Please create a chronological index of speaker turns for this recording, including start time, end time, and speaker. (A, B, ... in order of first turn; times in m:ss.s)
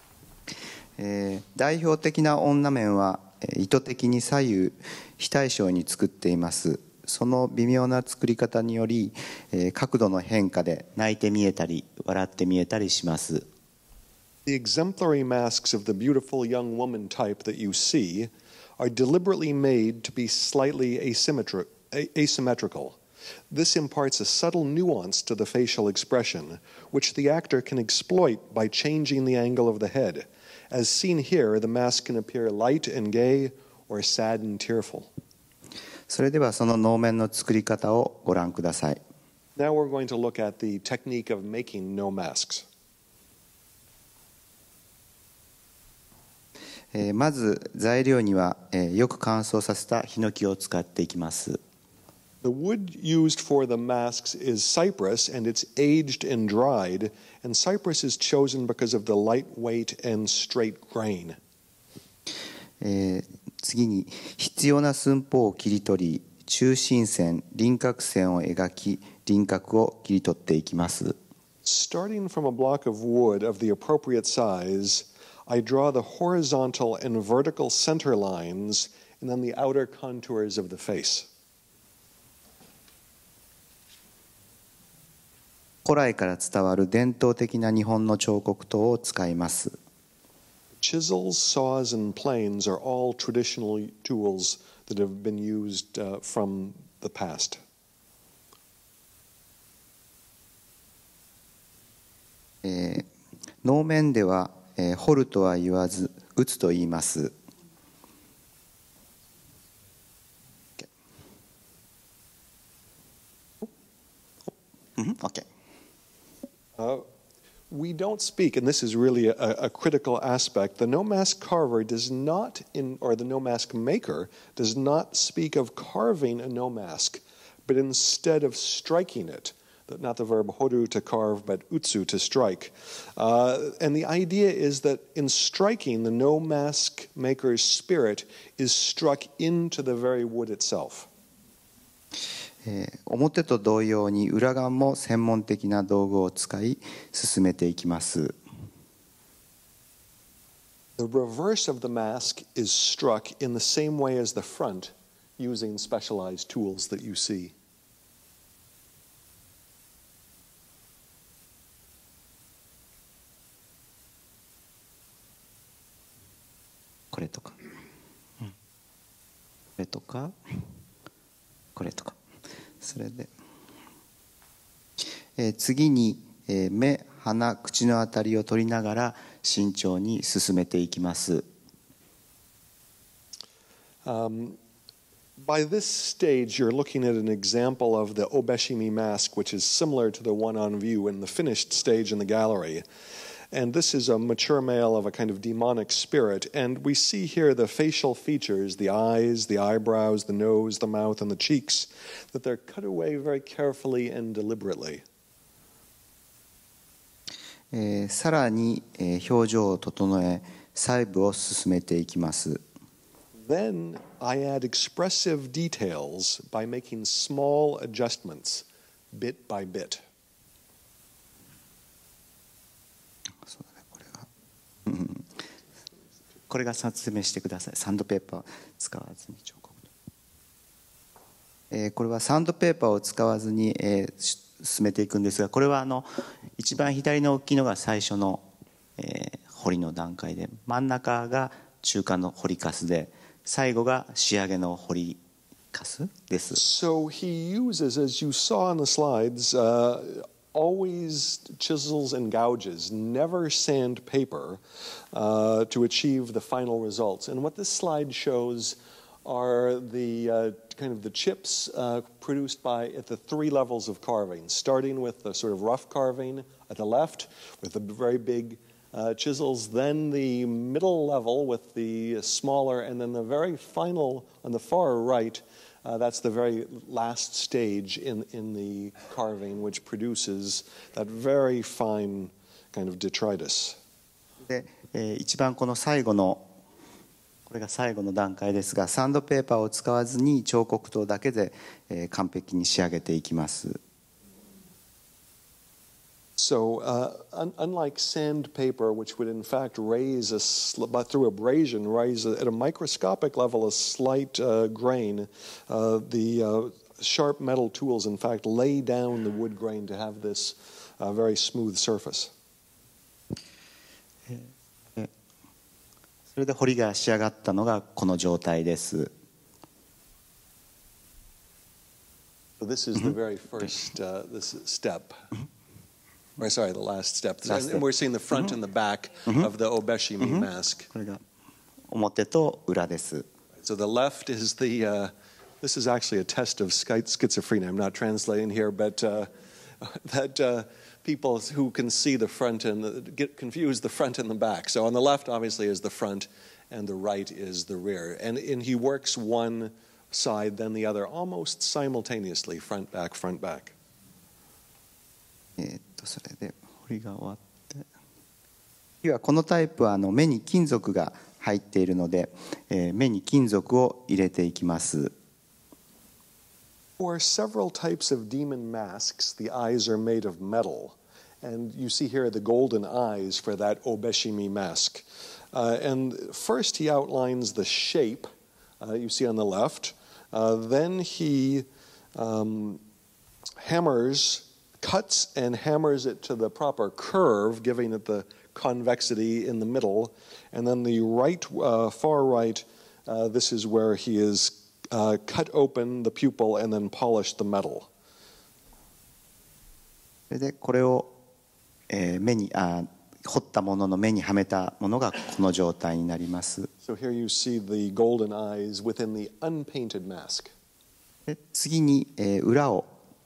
0:01.0-0:13.5 A
0:14.4-0:23.0 B
0:23.5-0:35.1 B
0:36.1-0:39.0 A
0:39.6-0:42.6 B
0:46.9-0:51.6 A
0:52.4-1:01.4 B
1:02.8-1:11.2 A
1:11.6-1:21.3 B
1:25.8-1:29.8 A
1:30.8-1:37.6 B
1:42.6-1:43.0 A
1:43.6-1:47.3 A
1:54.5-1:55.4 A
1:56.8-1:57.0 B
1:57.7-2:21.1 B
2:22.6-2:28.4 A
2:31.0-2:37.5 B
2:47.1-2:47.6 A
2:49.8-2:50.6 A
2:51.8-2:52.2 A
2:52.8-2:53.3 A
2:55.0-3:01.5 A
3:04.0-3:04.6 B
3:05.4-3:12.8 B
3:13.5-3:25.0 B
3:27.7-3:32.6 A
3:33.4-3:40.0 B
3:43.4-3:44.2 A
3:44.8-3:45.3 A
3:46.5-3:49.9 A
3:51.7-3:58.4 A
3:59.0-4:05.2 A
4:05.7-4:06.6 A
4:06.6-4:14.6 B
4:15.1-4:43.8 B
4:44.4-4:46.5 A
4:47.5-4:53.8 A
4:56.4-5:12.3 B
5:14.3-5:15.1 A
5:16.3-5:19.1 A
5:22.6-5:25.2 B
5:26.4-5:30.9 B
5:27.4-5:27.8 A
5:30.2-5:31.2 A
5:31.9-5:33.3 A
5:33.6-5:53.7 B
5:55.6-5:57.8 A
5:59.0-6:05.1 A
6:07.0-6:18.3 B
6:18.8-6:22.8 B
6:23.6-6:37.9 B
6:40.3-6:41.1 A
6:41.9-6:46.7 A
6:46.8-6:50.5 B
6:51.3-6:52.9 A